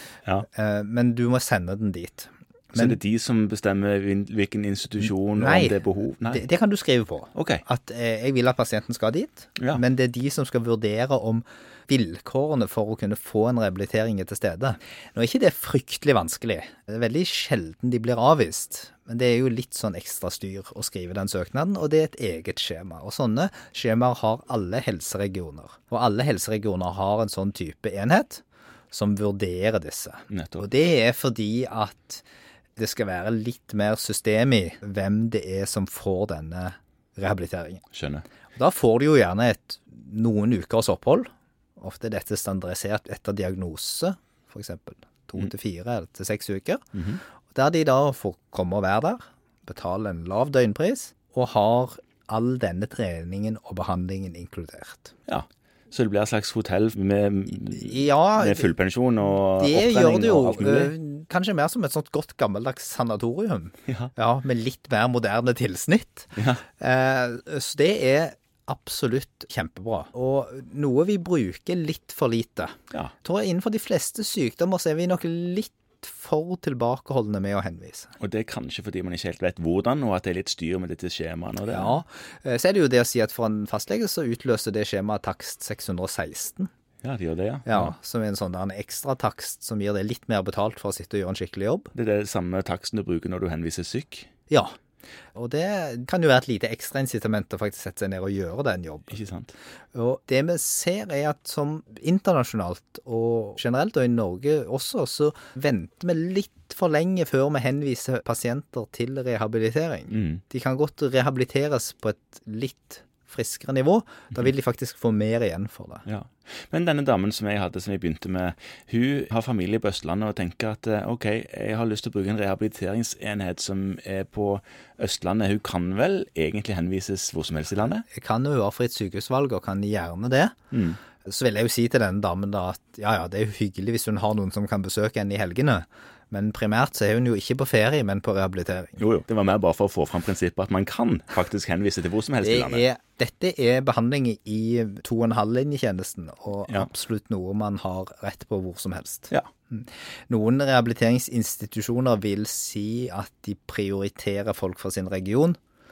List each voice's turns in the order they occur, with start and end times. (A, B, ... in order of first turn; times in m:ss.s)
0:00.5-0:03.0 A
0:02.7-0:06.4 B
0:05.4-0:32.2 A
0:07.3-0:07.6 B
0:30.3-0:30.7 B
0:32.8-0:37.8 A
0:37.9-0:38.2 B
0:38.6-0:46.8 A
0:46.9-0:47.2 B
0:47.5-0:55.1 A
0:55.3-1:00.9 B
0:57.7-0:58.7 A
0:59.6-1:18.1 A
1:03.9-1:04.1 B
1:06.4-1:06.6 B
1:18.2-1:22.0 B
1:21.7-1:26.7 A
1:27.0-1:27.9 B
1:27.6-1:31.9 A
1:31.9-1:34.3 B
1:35.4-1:39.2 A
1:39.1-1:39.5 B
1:39.9-1:56.1 A
1:50.1-1:50.4 B
1:56.1-2:08.1 B
2:08.1-2:10.6 A
2:10.7-2:11.0 B
2:11.2-2:19.0 A
2:19.0-2:22.9 B
2:22.4-2:35.6 A